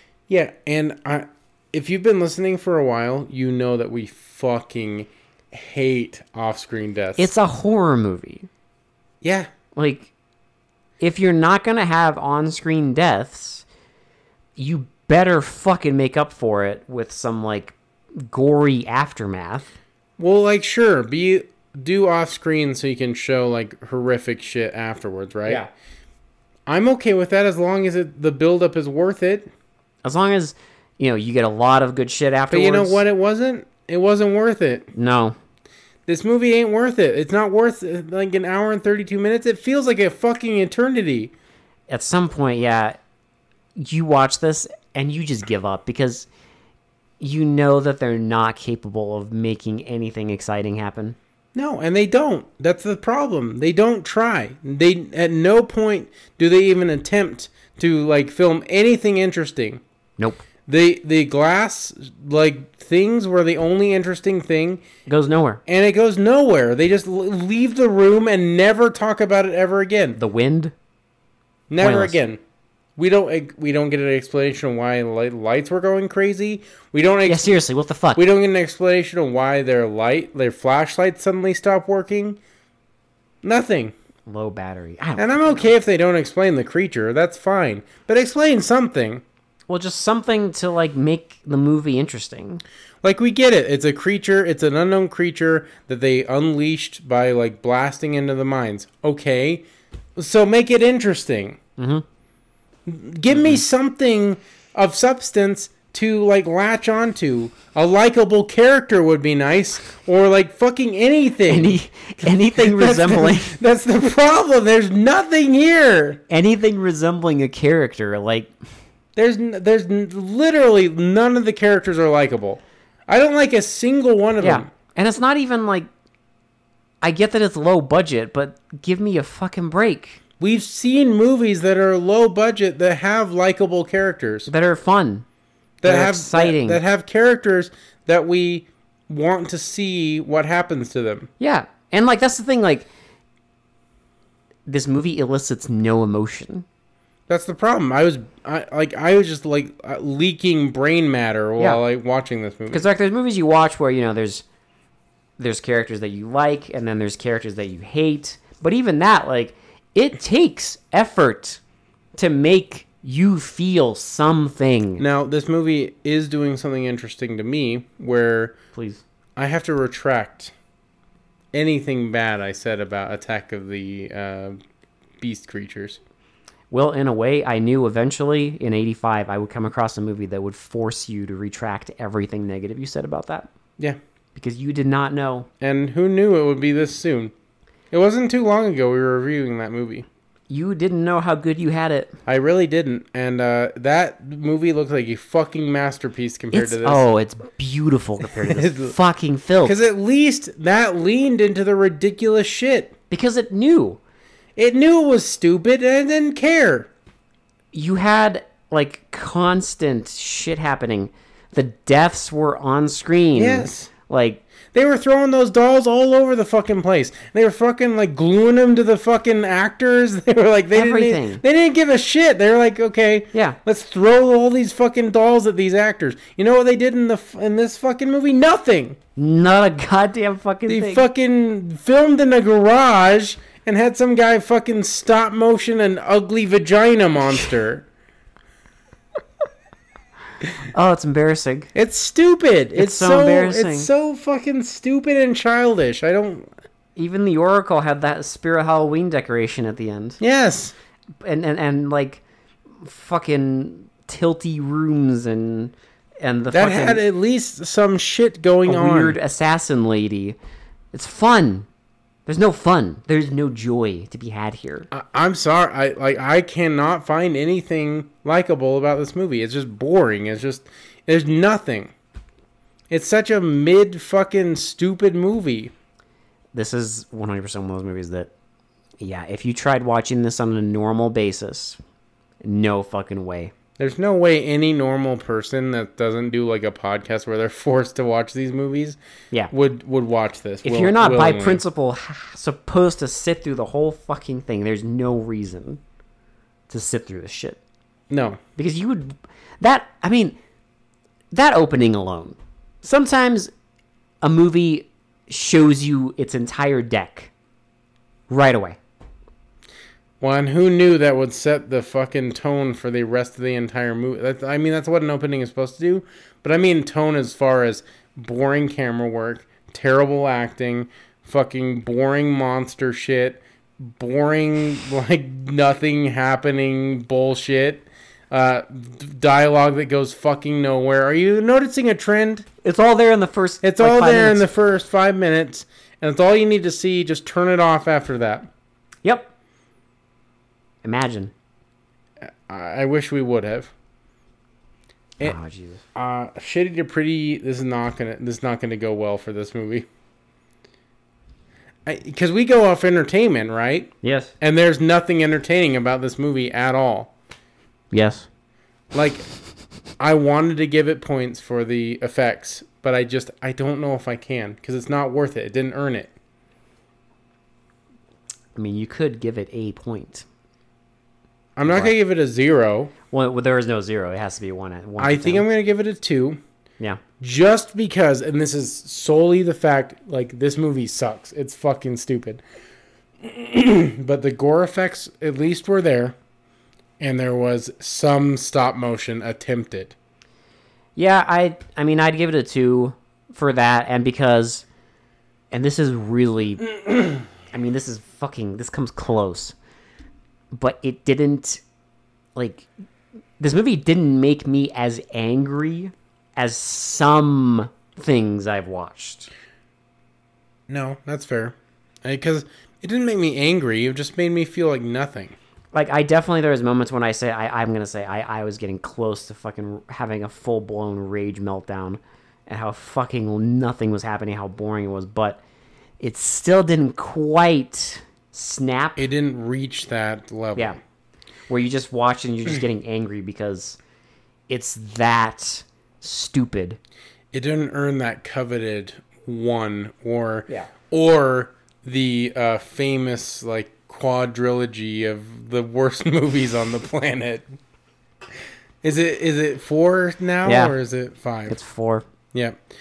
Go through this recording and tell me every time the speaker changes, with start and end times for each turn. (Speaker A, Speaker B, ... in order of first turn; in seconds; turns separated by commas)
Speaker A: 0.3-7.3, Speaker B: 7.2-8.5, Speaker A: 9.2-9.5, Speaker B: 9.8-10.1, Speaker B: 11.0-13.7, Speaker B: 14.6-19.7, Speaker A: 20.2-25.6, Speaker A: 26.7-29.5, Speaker B: 30.0-33.0, Speaker A: 32.5-34.9, Speaker B: 35.0-35.4, Speaker A: 36.1-41.3, Speaker B: 41.9-43.0, Speaker B: 43.8-46.3, Speaker B: 47.2-51.2, Speaker A: 51.5-59.8, Speaker B: 60.2-60.4, Speaker A: 60.7-64.8, Speaker B: 65.1-65.6, Speaker A: 65.7-70.2, Speaker B: 70.2-70.7, Speaker A: 71.7-72.4, Speaker B: 71.8-72.2, Speaker A: 73.0-77.5, Speaker B: 77.3-78.2, Speaker A: 78.2-82.4, Speaker A: 83.4-83.9, Speaker B: 84.3-85.6, Speaker A: 85.2-89.2, Speaker B: 89.7-92.6, Speaker A: 93.0-99.7, Speaker A: 100.2-101.6, Speaker B: 101.8-102.0, Speaker A: 102.9-116.2, Speaker B: 103.3-103.6, Speaker B: 111.5-113.6, Speaker B: 116.3-118.5, Speaker A: 119.2-124.7, Speaker B: 124.4-125.9, Speaker B: 127.0-130.2, Speaker A: 130.4-134.5, Speaker B: 134.5-135.2, Speaker A: 135.8-141.3, Speaker B: 135.8-136.8, Speaker B: 141.4-142.9, Speaker B: 144.7-146.7, Speaker A: 147.3-152.9, Speaker B: 152.7-154.4, Speaker B: 155.4-161.6, Speaker B: 162.2-165.1, Speaker A: 165.0-168.6, Speaker B: 168.7-169.0, Speaker A: 169.4-170.5, Speaker A: 171.5-174.6, Speaker A: 175.2-176.0, Speaker B: 176.7-183.5, Speaker B: 184.3-185.5, Speaker A: 185.6-187.3, Speaker A: 187.9-190.1, Speaker B: 190.5-192.1, Speaker A: 192.3-197.1, Speaker B: 196.5-199.8, Speaker A: 198.4-198.9, Speaker A: 199.6-202.9, Speaker B: 203.1-204.0, Speaker A: 204.6-206.9, Speaker B: 207.7-214.4, Speaker A: 213.3-213.9, Speaker A: 214.7-229.0, Speaker B: 220.7-221.4, Speaker B: 223.3-223.6, Speaker B: 229.2-231.0, Speaker A: 230.7-237.9, Speaker B: 240.6-241.7, Speaker A: 241.8-246.5, Speaker B: 242.8-243.9, Speaker B: 247.0-250.2, Speaker A: 250.2-250.7, Speaker B: 251.2-252.2, Speaker B: 252.8-257.0, Speaker A: 256.5-259.2, Speaker B: 258.7-260.4, Speaker B: 260.9-261.7, Speaker B: 262.3-264.9, Speaker A: 264.9-271.9, Speaker A: 272.9-275.7, Speaker B: 276.5-278.3, Speaker B: 279.0-281.8, Speaker B: 282.4-283.5, Speaker A: 283.8-289.0, Speaker A: 289.5-291.6, Speaker B: 290.6-295.8, Speaker B: 296.7-297.6, Speaker A: 298.1-298.4, Speaker B: 298.6-300.4, Speaker B: 301.3-303.5, Speaker B: 304.2-307.3, Speaker B: 308.3-308.8, Speaker A: 310.2-332.5, Speaker B: 332.6-334.5, Speaker A: 333.6-338.5, Speaker B: 339.0-339.3, Speaker B: 340.8-341.3, Speaker A: 342.2-343.7, Speaker B: 345.2-345.8, Speaker A: 345.9-349.9, Speaker A: 351.9-357.1, Speaker B: 354.0-354.3, Speaker B: 357.9-358.3, Speaker A: 358.9-359.3, Speaker A: 360.0-366.1, Speaker B: 368.6-370.3, Speaker A: 371.6-372.9, Speaker B: 371.7-371.9, Speaker B: 373.1-375.4, Speaker A: 375.0-376.4, Speaker A: 377.2-382.4, Speaker A: 383.2-386.2, Speaker A: 387.0-389.9, Speaker B: 391.0-394.6, Speaker B: 395.5-396.8, Speaker B: 397.5-399.6, Speaker B: 400.5-401.6, Speaker B: 402.4-402.7, Speaker B: 403.4-409.3, Speaker A: 410.7-415.4, Speaker B: 415.7-425.4, Speaker B: 426.0-429.1, Speaker A: 429.0-430.8, Speaker B: 431.5-433.8, Speaker B: 434.5-436.8, Speaker A: 437.3-447.5, Speaker A: 448.8-451.6, Speaker B: 450.5-450.7, Speaker B: 451.5-452.0, Speaker A: 452.3-452.6